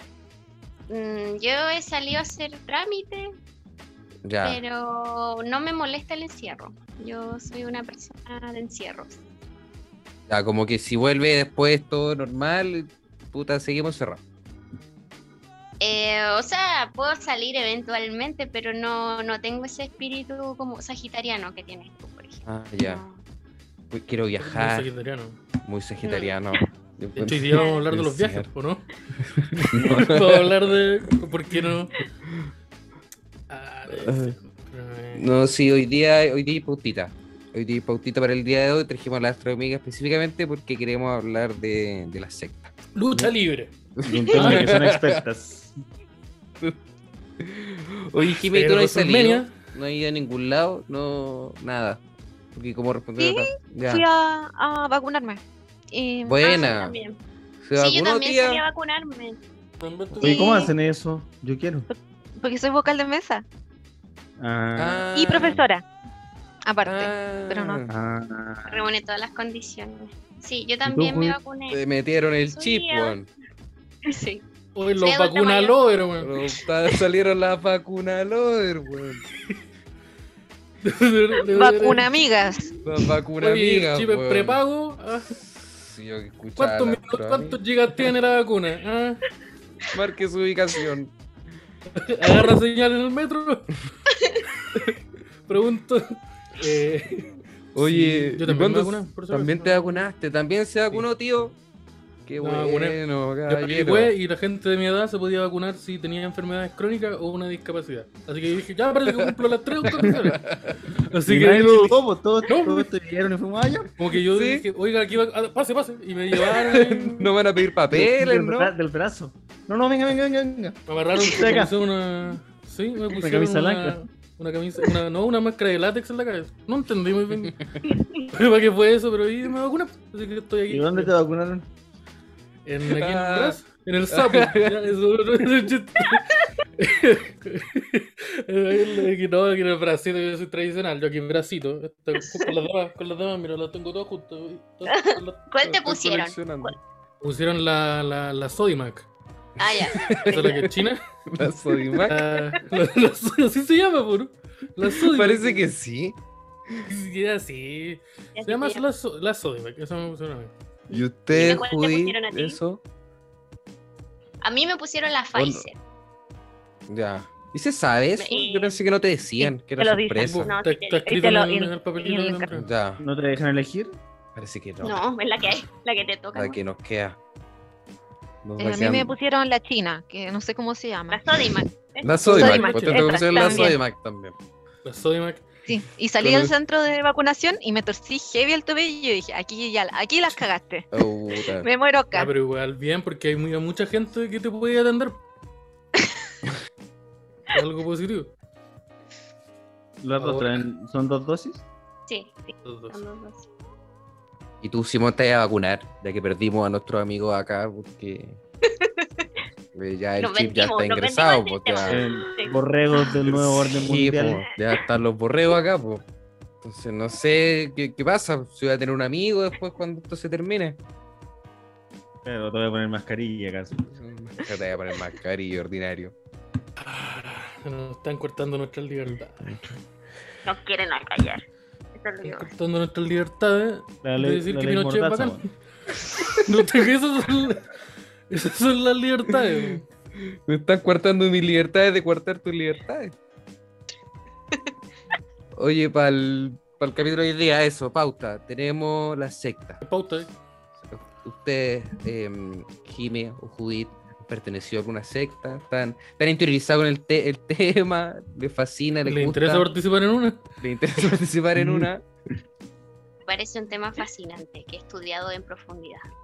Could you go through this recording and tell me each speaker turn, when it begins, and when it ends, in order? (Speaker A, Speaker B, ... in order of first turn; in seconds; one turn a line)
Speaker A: 0.9-3.3
Speaker B: 4.3-4.6
Speaker A: 4.4-9.2
Speaker B: 10.3-14.2
Speaker A: 15.8-23.2
Speaker B: 22.5-23.0
Speaker B: 23.9-24.9
Speaker C: 24.4-25.4
Speaker B: 25.6-28.5
Speaker A: 26.0-26.4
Speaker C: 27.2-28.9
Speaker B: 29.2-30.5
Speaker C: 29.7-32.0
Speaker D: 29.7-30.1
Speaker C: 33.5-35.3
Speaker B: 33.9-34.4
Speaker B: 35.1-43.3
Speaker C: 43.0-43.7
Speaker B: 44.0-45.2
Speaker D: 44.0-45.8
Speaker C: 44.3-44.8
Speaker B: 47.4-52.0
Speaker C: 48.2-49.5
Speaker B: 52.5-54.0
Speaker E: 53.2-55.4
Speaker E: 55.9-56.7
Speaker B: 56.3-57.0
Speaker A: 56.4-57.2
Speaker B: 57.6-58.6
Speaker A: 57.8-59.4
Speaker C: 59.8-60.7
Speaker D: 60.1-61.9
Speaker E: 60.2-60.7
Speaker E: 61.9-63.5
Speaker D: 64.4-65.1
Speaker B: 64.8-65.7
Speaker E: 65.1-65.8
Speaker E: 66.7-67.8
Speaker B: 66.8-67.9
Speaker D: 67.9-68.9
Speaker A: 68.7-71.8
Speaker D: 70.8-71.4
Speaker B: 71.7-73.3
Speaker A: 72.5-73.2
Speaker A: 74.1-74.4
Speaker C: 74.8-76.3
Speaker A: 75.0-75.8
Speaker B: 76.2-79.2
Speaker C: 80.8-82.1
Speaker E: 81.5-82.7
Speaker B: 82.8-84.6
Speaker C: 83.4-85.3
Speaker B: 85.3-88.1
Speaker C: 86.6-89.2
Speaker B: 89.9-91.1
Speaker C: 92.0-93.8
Speaker C: 94.5-94.9
Speaker C: 95.5-100.0
Speaker B: 97.8-101.5
Speaker B: 102.3-104.1
Speaker C: 102.4-112.9
Speaker B: 109.8-110.8
Speaker D: 111.3-113.9
Speaker C: 114.0-117.3
Speaker B: 114.3-114.7
Speaker B: 116.3-118.7
Speaker D: 117.9-121.8
Speaker C: 120.9-127.6
Speaker D: 123.1-124.1
Speaker B: 127.4-127.7
Speaker A: 127.8-128.3
Speaker C: 128.3-131.1
Speaker D: 130.7-131.7
Speaker C: 132.7-145.4
Speaker B: 132.8-133.6
Speaker B: 134.1-134.8
Speaker A: 144.9-146.8
Speaker B: 145.6-146.8
Speaker C: 147.2-149.1
Speaker A: 149.6-150.4
Speaker B: 149.8-150.7
Speaker C: 150.1-151.0
Speaker B: 151.3-152.2
Speaker C: 152.1-155.6
Speaker B: 155.1-156.2
Speaker C: 156.9-160.5
Speaker A: 158.4-158.8
Speaker B: 160.9-162.8
Speaker A: 160.9-162.6
Speaker A: 164.4-165.8
Speaker B: 165.3-165.7
Speaker B: 166.9-170.6
Speaker A: 168.2-168.8
Speaker E: 169.8-170.4
Speaker C: 170.2-172.7
Speaker A: 170.5-171.2
Speaker E: 171.1-172.5
Speaker B: 172.6-173.0
Speaker D: 173.0-174.0
Speaker B: 174.4-175.0
Speaker A: 174.8-176.6
Speaker B: 176.3-177.2
Speaker B: 178.4-179.1
Speaker E: 178.6-181.4
Speaker A: 181.1-182.6
Speaker B: 182.0-184.3
Speaker C: 182.2-183.7
Speaker E: 182.2-183.8
Speaker C: 184.8-185.5
Speaker E: 185.7-190.9
Speaker B: 186.2-186.5
Speaker B: 190.9-191.7
Speaker E: 191.6-192.3
Speaker C: 192.1-195.2
Speaker C: 197.5-198.3
Speaker D: 200.0-201.6
Speaker C: 200.2-200.6
Speaker A: 202.1-203.5
Speaker C: 202.7-203.0
Speaker B: 204.6-208.4
Speaker A: 208.6-209.3
Speaker B: 209.7-212.0
Speaker A: 210.2-212.6
Speaker D: 211.9-214.4
Speaker B: 213.2-216.0
Speaker B: 216.6-220.8
Speaker D: 222.2-224.0
Speaker B: 223.9-226.2
Speaker C: 226.8-229.6
Speaker A: 230.5-231.4
Speaker A: 231.9-232.5
Speaker C: 232.2-235.5
Speaker D: 234.0-235.5
Speaker C: 236.2-237.8
Speaker C: 238.3-239.8
Speaker B: 239.4-243.1
Speaker B: 245.5-249.8
Speaker C: 249.8-250.3
Speaker B: 250.9-259.7
Speaker C: 259.1-260.4
Speaker B: 260.6-262.0
Speaker D: 261.5-261.9
Speaker A: 263.2-266.1